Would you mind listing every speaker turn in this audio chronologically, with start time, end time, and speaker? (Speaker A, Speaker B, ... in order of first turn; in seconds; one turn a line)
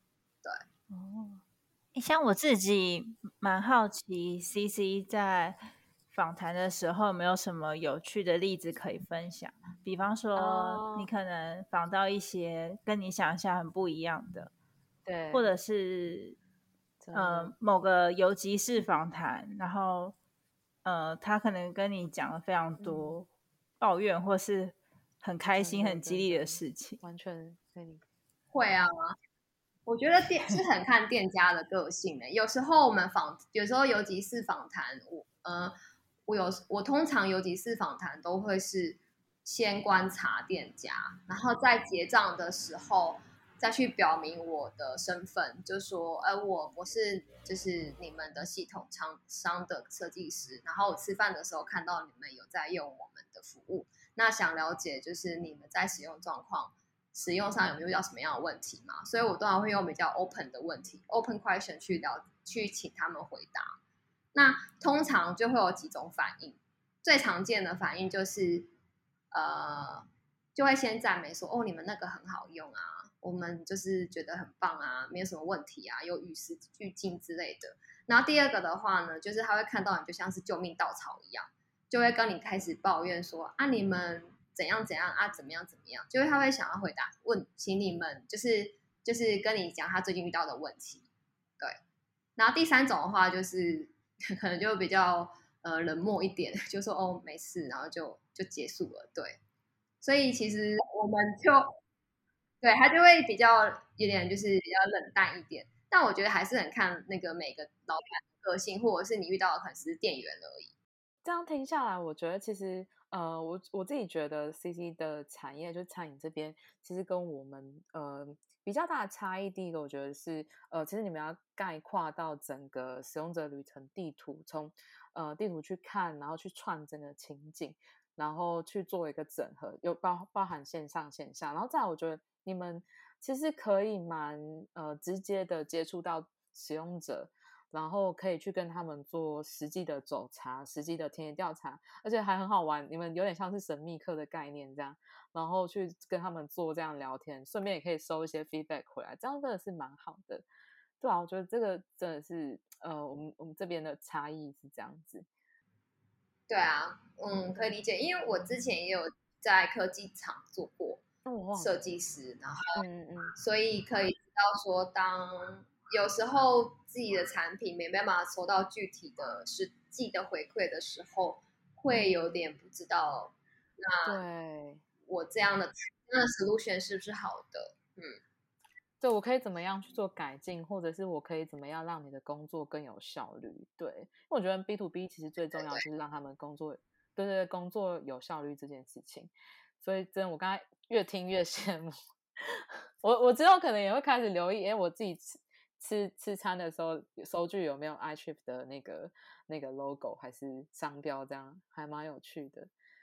Speaker A: 0.9-1.4
Speaker A: 1.9-14.5
Speaker B: 10.3-11.1
Speaker B: 15.0-15.5
Speaker A: 15.3-16.4
Speaker B: 17.0-17.5
Speaker A: 17.1-20.1
Speaker A: 20.8-23.3
Speaker B: 22.8-23.2
Speaker A: 23.8-27.0
Speaker B: 25.5-28.0
Speaker C: 28.5-29.1
Speaker C: 29.9-35.7
Speaker C: 36.3-63.8
Speaker C: 64.3-68.7
Speaker C: 69.3-91.0
Speaker C: 92.4-99.4
Speaker C: 100.0-101.8
Speaker C: 102.6-110.7
Speaker B: 111.2-150.4
Speaker B: 151.0-155.3
Speaker C: 156.5-161.0
Speaker B: 161.2-161.8
Speaker C: 161.5-162.8
Speaker B: 162.8-163.3
Speaker C: 163.4-174.2
Speaker B: 171.9-172.2
Speaker B: 174.0-174.8
Speaker C: 175.1-178.2
Speaker B: 179.0-202.7